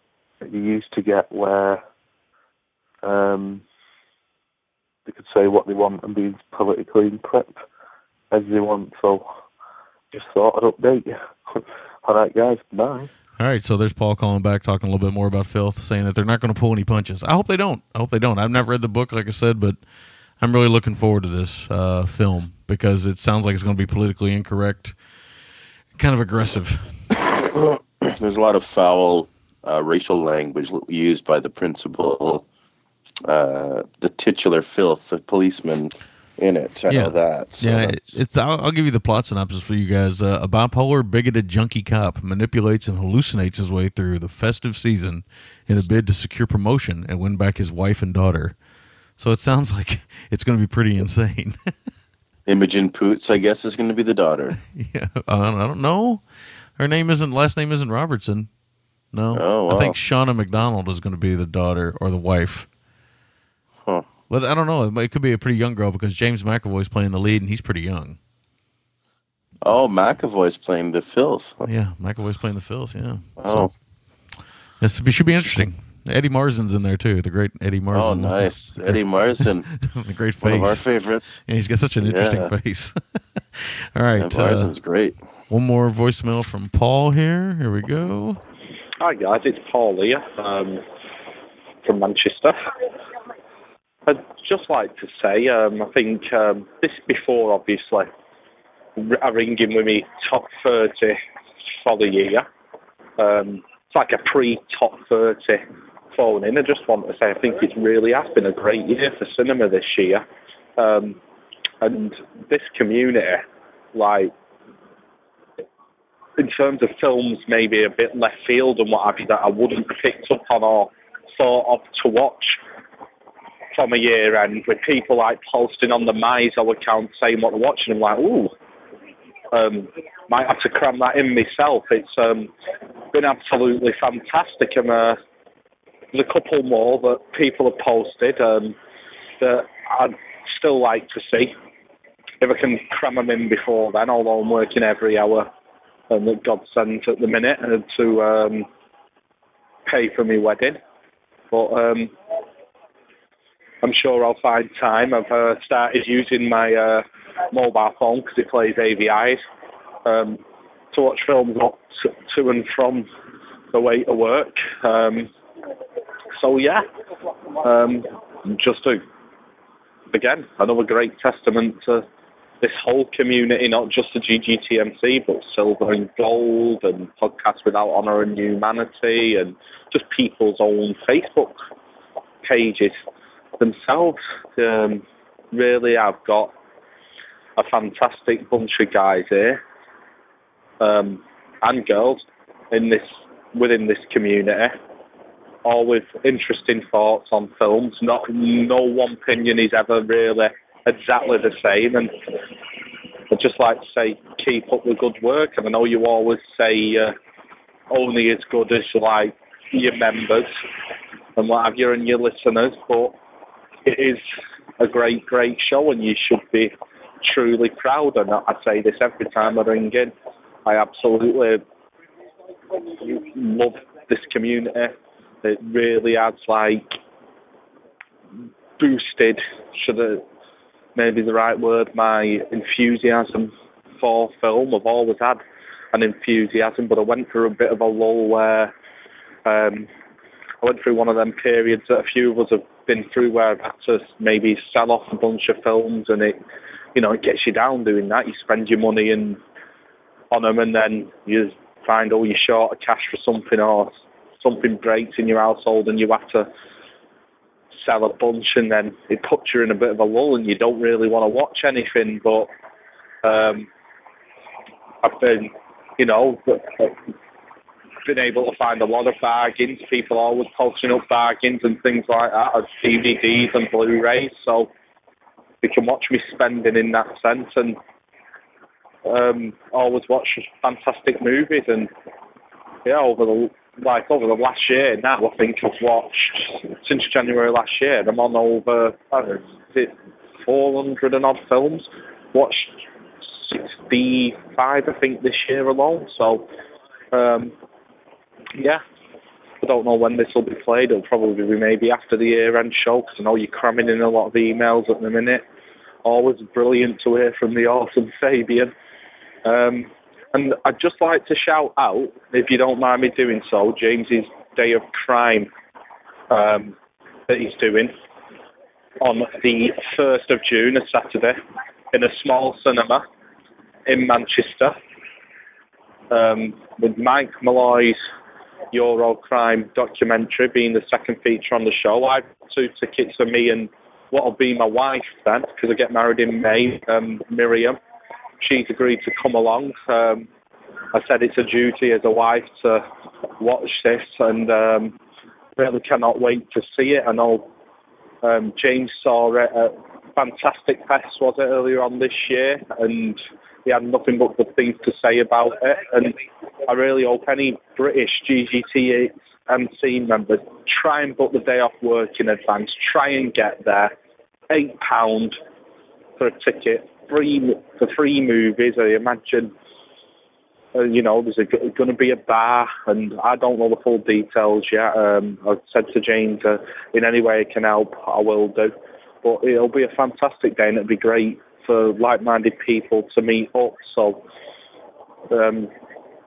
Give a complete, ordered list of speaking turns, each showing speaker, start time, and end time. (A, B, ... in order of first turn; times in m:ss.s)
0:00.4-0:01.8 A
0:03.0-0:03.6 A
0:05.1-0:07.6 A
0:08.3-0:09.3 A
0:10.1-0:13.1 A
0:13.4-0:19.8 B
0:20.4-0:25.0 B
0:26.0-0:26.9 B
0:27.2-0:32.5 C
0:33.3-0:38.2 C
0:36.9-0:48.6 B
0:49.2-0:51.7 B
0:52.5-0:54.6 C
0:54.7-0:56.2 B
0:56.8-0:58.5 B
0:59.1-1:02.7 B
0:59.3-1:00.0 C
1:04.3-1:08.2 B
1:09.6-1:11.7 C
1:11.6-1:13.7 B
1:13.4-1:13.7 C
1:14.8-1:20.8 B
1:15.4-1:15.7 C
1:17.9-1:19.7 C
1:20.4-1:21.4 C
1:21.5-1:23.0 B
1:22.0-1:22.5 C
1:23.6-1:24.7 B
1:24.2-1:25.2 C
1:25.5-1:28.4 B
1:29.0-1:30.8 D
1:31.8-1:32.6 D
1:34.1-1:38.1 D
1:39.0-1:41.2 D
1:41.8-1:42.5 D
1:43.2-1:45.6 D
1:46.2-1:50.2 D
1:50.8-1:51.2 D
1:51.8-1:54.3 D
1:56.4-2:02.6 D
2:03.8-2:08.5 D
2:09.5-2:12.5 D
2:13.1-2:15.2 D
2:16.1-2:18.8 D
2:19.4-2:21.5 D
2:22.4-2:25.5 D
2:26.1-2:28.7 D
2:29.9-2:30.8 D
2:31.5-2:32.1 D
2:33.8-2:39.4 D
2:40.1-2:40.4 D
2:40.9-2:43.1 D
2:43.7-2:45.3 D
2:46.4-2:46.8 D
2:47.6-2:49.0 D
2:50.1-2:52.0 D
2:52.6-3:01.6 D
3:02.4-3:03.0 D
3:03.6-3:06.5 D
3:07.6-3:09.6 D
3:10.8-3:14.8 D
3:15.6-3:22.1 D
3:23.3-3:27.1 D
3:27.9-3:30.5 D
3:31.4-3:33.2 D
3:33.9-3:34.2 D
3:34.8-3:36.7 D
3:37.2-3:40.1 D
3:40.7-3:41.6 D
3:42.9-3:46.9 D
3:48.8-3:50.2 D
3:51.0-3:55.4 D
3:55.9-3:58.7 D
3:59.5-3:59.9 D
4:00.6-4:06.4 D
4:07.0-4:09.4 D
4:10.3-4:16.5 D
4:17.8-4:22.5 D
4:23.2-4:23.7 D
4:25.0-4:27.0 D
4:28.0-4:34.7 D
4:35.6-4:37.8 D
4:39.1-4:41.9 D
4:42.9-4:49.9 D
4:50.5-4:52.7 D
4:53.4-4:56.4 D
4:57.1-4:57.5 D
4:58.6-4:58.8 D
4:59.6-5:05.4 D
5:06.0-5:08.7 D
5:09.4-5:15.5 D
5:16.3-5:16.8 D
5:17.3-5:17.9 D
5:19.0-5:21.4 D
5:21.9-5:23.0 D
5:23.9-5:24.8 D
5:26.1-5:28.0 D
5:28.7-5:37.8 D
5:38.4-5:40.3 D
5:40.9-5:42.8 D
5:43.4-5:45.0 D
5:45.6-5:47.5 D
5:48.2-5:56.2 D
5:56.7-6:03.9 D
6:04.5-6:05.4 D
6:06.2-6:09.5 D
6:10.8-6:24.2 D
6:25.3-6:25.7 D